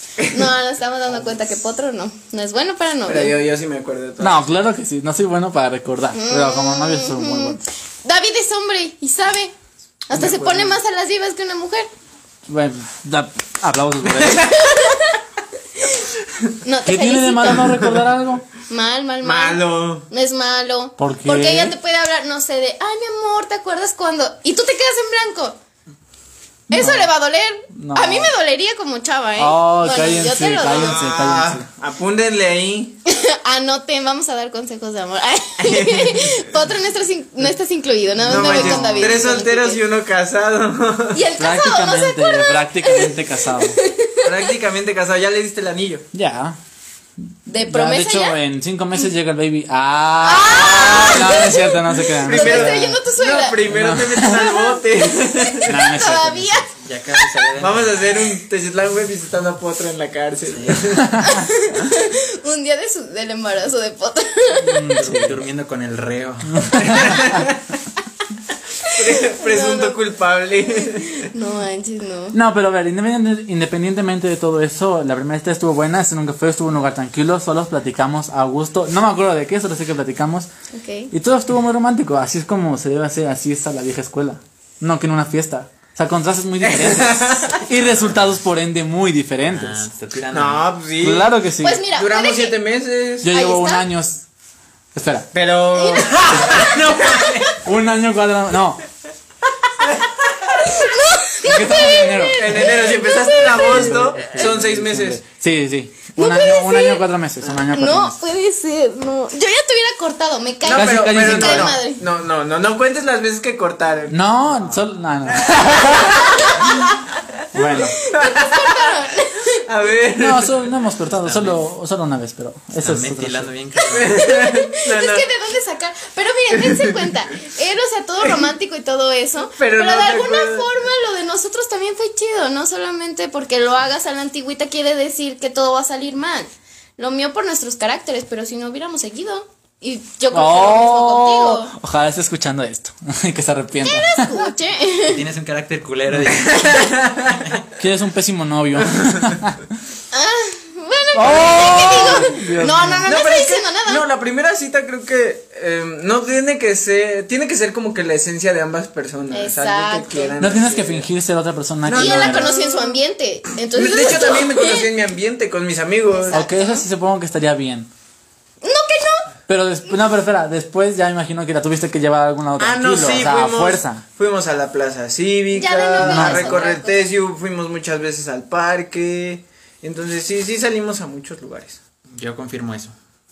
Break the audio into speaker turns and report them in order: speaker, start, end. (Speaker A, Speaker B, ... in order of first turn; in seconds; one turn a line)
Speaker A: 0.3-3.4
Speaker B: 3.1-4.5
Speaker C: 4.2-7.6
Speaker A: 6.1-9.6
Speaker A: 10.1-11.9
Speaker B: 10.1-10.8
Speaker C: 12.5-14.5
Speaker B: 14.2-14.5
Speaker A: 14.5-15.2
Speaker A: 15.8-16.1
Speaker A: 16.6-17.8
Speaker C: 16.9-18.4
Speaker A: 18.7-25.6
Speaker B: 19.2-20.1
Speaker C: 21.0-21.7
Speaker A: 26.7-31.0
Speaker C: 26.7-27.1
Speaker C: 27.7-28.3
Speaker C: 29.4-31.7
Speaker B: 30.7-33.0
Speaker A: 33.1-39.8
Speaker B: 35.6-36.4
Speaker C: 38.2-39.4
Speaker B: 38.2-41.2
Speaker A: 41.1-44.3
Speaker C: 41.4-43.8
Speaker B: 44.2-46.1
Speaker C: 46.1-46.6
Speaker A: 47.5-48.4
Speaker C: 47.6-53.0
Speaker A: 50.2-53.7
Speaker B: 50.5-51.5
Speaker B: 52.2-55.8
Speaker C: 53.7-54.6
Speaker A: 54.2-56.7
Speaker C: 55.7-56.6
Speaker D: 56.8-58.2
Speaker B: 57.6-61.2
Speaker D: 60.5-61.0
Speaker C: 61.1-61.3
Speaker A: 61.2-65.0
Speaker C: 64.6-65.4
Speaker D: 65.0-67.2
Speaker C: 66.6-67.4
Speaker B: 66.9-67.6
Speaker B: 68.9-71.3
Speaker A: 69.3-70.0
Speaker A: 70.8-72.4
Speaker C: 72.3-80.5
Speaker A: 80.7-81.1
Speaker C: 81.1-89.9
Speaker B: 86.6-87.6
Speaker D: 88.0-88.3
Speaker D: 89.5-90.7
Speaker B: 90.3-91.3
Speaker C: 91.0-91.8
Speaker A: 91.6-92.6
Speaker B: 91.9-93.3
Speaker C: 93.2-94.2
Speaker A: 93.2-93.9
Speaker C: 94.9-95.3
Speaker B: 95.3-97.6
Speaker A: 95.7-97.5
Speaker C: 97.6-98.8
Speaker B: 99.8-100.6
Speaker A: 100.5-104.5
Speaker C: 101.4-108.2
Speaker B: 102.3-105.2
Speaker A: 106.2-107.0
Speaker A: 107.7-112.0
Speaker B: 110.6-114.2
Speaker C: 110.7-111.8
Speaker C: 114.1-116.2
Speaker B: 115.3-116.8
Speaker A: 115.9-116.7
Speaker C: 117.5-118.0
Speaker A: 117.9-119.6
Speaker B: 118.0-118.9
Speaker B: 119.6-120.6
Speaker C: 120.2-123.5
Speaker D: 121.2-121.6
Speaker D: 122.8-124.3
Speaker A: 123.8-141.7
Speaker B: 123.9-125.3
Speaker B: 126.5-127.0
Speaker B: 129.6-130.8
Speaker C: 140.3-144.5
Speaker A: 143.8-145.2
Speaker D: 145.0-146.9
Speaker B: 146.3-147.5
Speaker C: 147.8-149.7
Speaker A: 150.1-154.0
Speaker C: 151.1-153.1
Speaker B: 153.0-161.1
Speaker A: 159.3-160.3
Speaker C: 160.4-162.5
Speaker B: 161.9-163.0
Speaker A: 161.9-164.9
Speaker B: 163.7-166.4
Speaker A: 166.1-166.8
Speaker C: 166.3-167.9
Speaker A: 168.6-169.3
Speaker C: 169.5-174.0
Speaker B: 172.6-181.8
Speaker A: 175.5-177.1
Speaker C: 176.0-176.6
Speaker D: 182.1-182.9